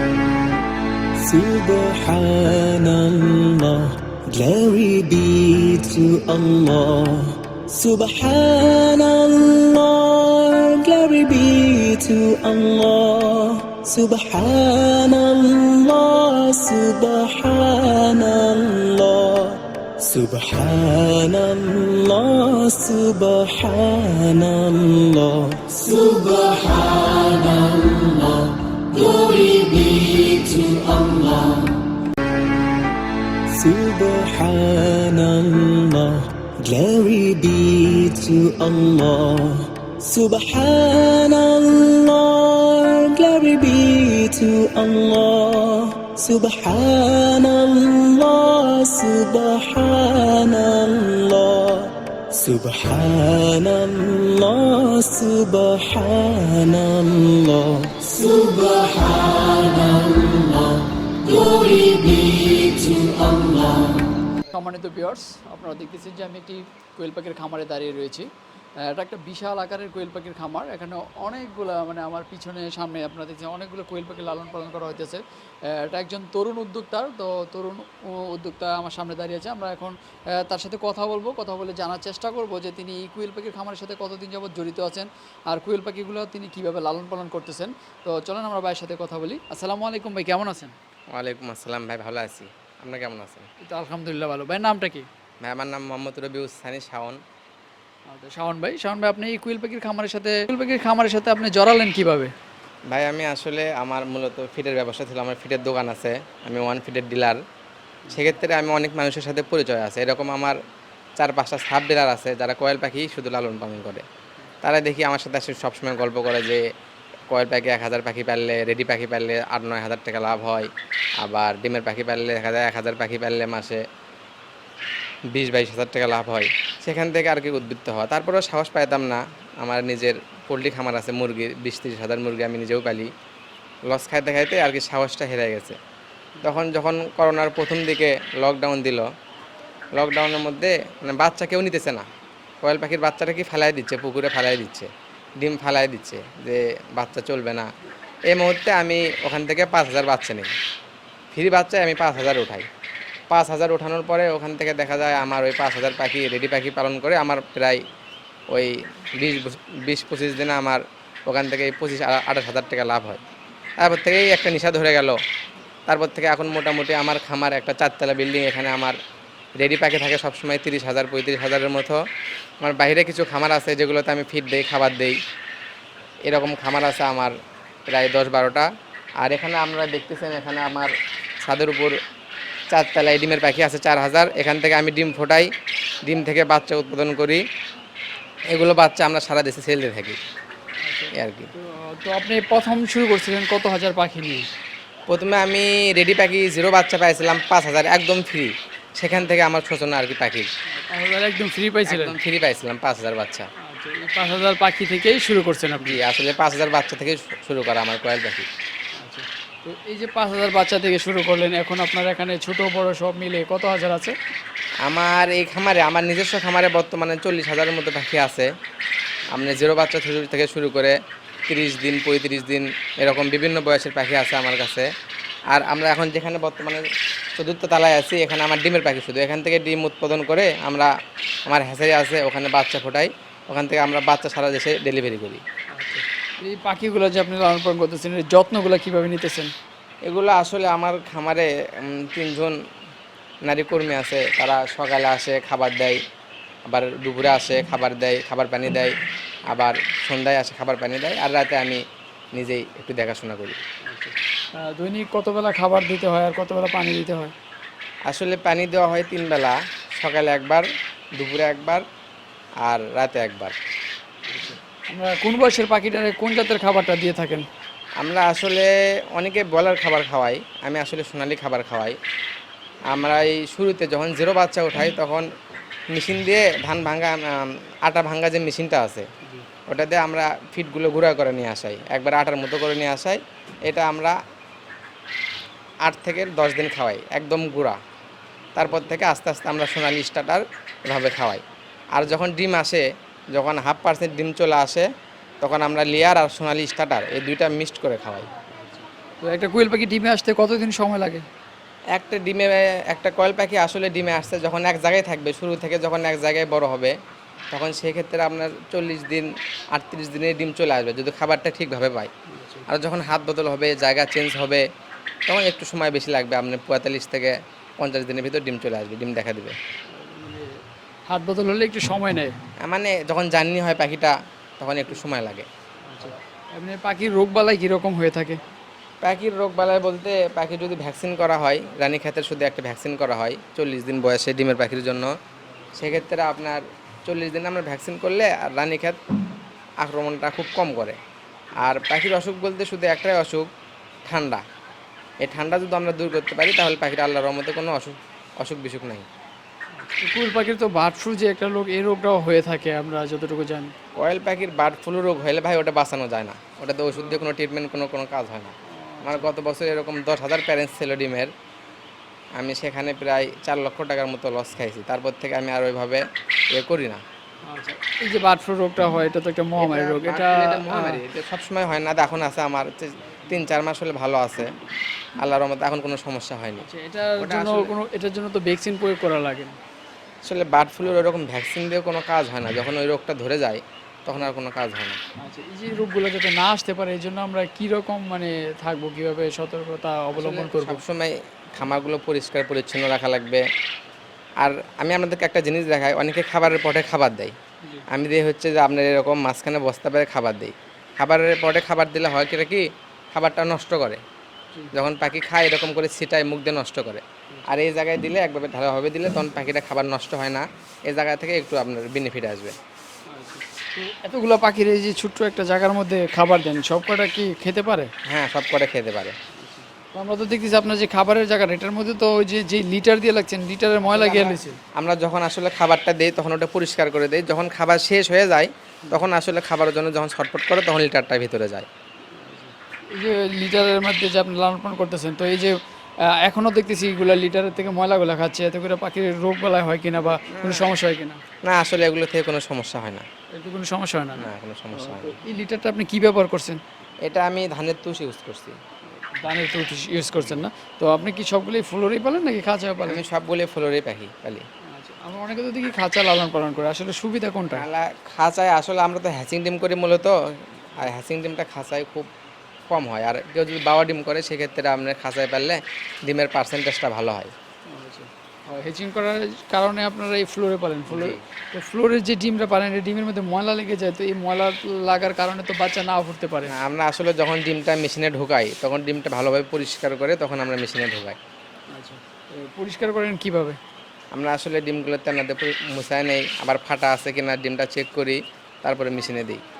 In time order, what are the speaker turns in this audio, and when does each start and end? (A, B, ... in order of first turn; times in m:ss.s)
0:01.2-0:31.8 A
0:33.5-1:04.0 A
1:04.5-1:08.3 B
1:08.8-1:30.7 B
1:31.1-1:33.5 C
1:33.6-1:35.1 B
1:35.4-1:37.2 C
1:38.1-1:42.3 B
1:42.9-1:47.4 C
1:48.1-1:50.6 C
1:51.2-1:54.0 C
1:54.6-1:56.6 C
1:57.3-2:00.7 C
2:01.2-2:03.8 C
2:05.3-2:13.1 C
2:13.8-2:15.8 C
2:16.4-2:19.0 C
2:19.9-2:22.0 C
2:22.6-2:27.6 C
2:28.3-2:30.5 C
2:31.3-2:32.7 C
2:33.3-2:37.8 C
2:38.5-2:43.2 C
2:43.8-2:45.2 C
2:45.9-2:49.0 C
2:49.6-2:52.0 C
2:52.6-2:55.2 C
2:56.2-2:57.3 C
2:57.9-2:58.7 C
2:59.2-3:02.0 C
3:02.7-3:05.5 C
3:06.0-3:07.4 C
3:08.5-3:10.2 C
3:10.8-3:14.4 B
3:11.1-3:11.5 C
3:15.1-3:20.5 C
3:20.7-3:22.1 B
3:21.8-3:23.5 C
3:23.6-3:26.0 B
3:25.8-3:28.5 C
3:29.0-3:34.2 B
3:34.8-3:38.5 C
3:39.3-3:41.0 C
3:41.5-3:44.9 C
3:45.5-3:46.8 C
3:47.4-3:50.9 C
3:51.5-3:55.4 C
3:55.7-3:59.5 B
4:00.0-4:02.5 C
4:03.4-4:06.0 C
4:06.7-4:08.9 C
4:09.5-4:11.8 C
4:12.4-4:13.6 C
4:13.8-4:17.3 B
4:18.1-4:20.6 C
4:21.2-4:21.8 C
4:22.6-4:23.5 C
4:24.3-4:27.5 B
4:28.0-4:32.0 C
4:32.9-4:35.3 C
4:35.9-4:39.0 C
4:39.7-4:44.2 C
4:45.8-4:47.8 C
4:48.6-4:51.4 C
4:48.6-4:49.0 B
4:51.9-4:54.8 C
4:55.4-4:58.3 C
4:58.5-5:01.2 B
5:01.9-5:06.9 C
5:07.5-5:12.1 C
5:12.3-5:12.7 B
5:12.7-5:14.6 C
5:15.3-5:19.6 C
5:19.9-5:20.5 B
5:21.1-5:22.3 B
5:22.6-5:25.5 C
5:25.8-5:28.4 B
5:29.0-5:35.1 C
5:35.8-5:39.0 C
5:39.8-5:41.0 C
5:41.6-5:43.5 C
5:44.0-5:44.4 C
5:45.2-5:49.0 C
5:49.8-5:53.7 B
5:54.0-6:01.3 C
5:56.9-5:57.2 B
5:58.7-5:59.3 B
6:02.4-6:06.0 C
6:06.5-6:07.0 C
6:07.4-6:11.0 B
6:09.6-6:14.5 C
6:15.2-6:16.6 C
6:16.6-6:19.6 B
6:17.2-6:17.7 C
6:20.2-6:25.0 C
6:25.2-6:30.8 B
6:30.1-6:33.4 C
6:34.4-6:37.3 C
6:37.9-6:44.0 C
6:44.7-6:52.6 C
6:53.1-6:57.9 B
6:58.1-6:59.2 C
6:59.3-7:04.6 B
7:03.8-7:11.6 C
7:12.1-7:21.2 B
7:20.0-7:20.8 C
7:21.4-7:23.0 C
7:23.3-7:26.6 B
7:24.2-7:25.2 C
7:27.0-7:28.6 C
7:28.9-7:33.0 B
7:30.2-7:30.4 C
7:32.8-7:34.4 C
7:34.7-7:37.6 B
7:37.6-7:40.2 C
7:40.8-7:42.1 C
7:42.7-7:47.3 C
7:47.7-7:56.5 B
7:50.9-7:51.2 C
7:56.5-8:01.2 C
8:01.7-8:03.6 B
8:04.1-8:09.4 C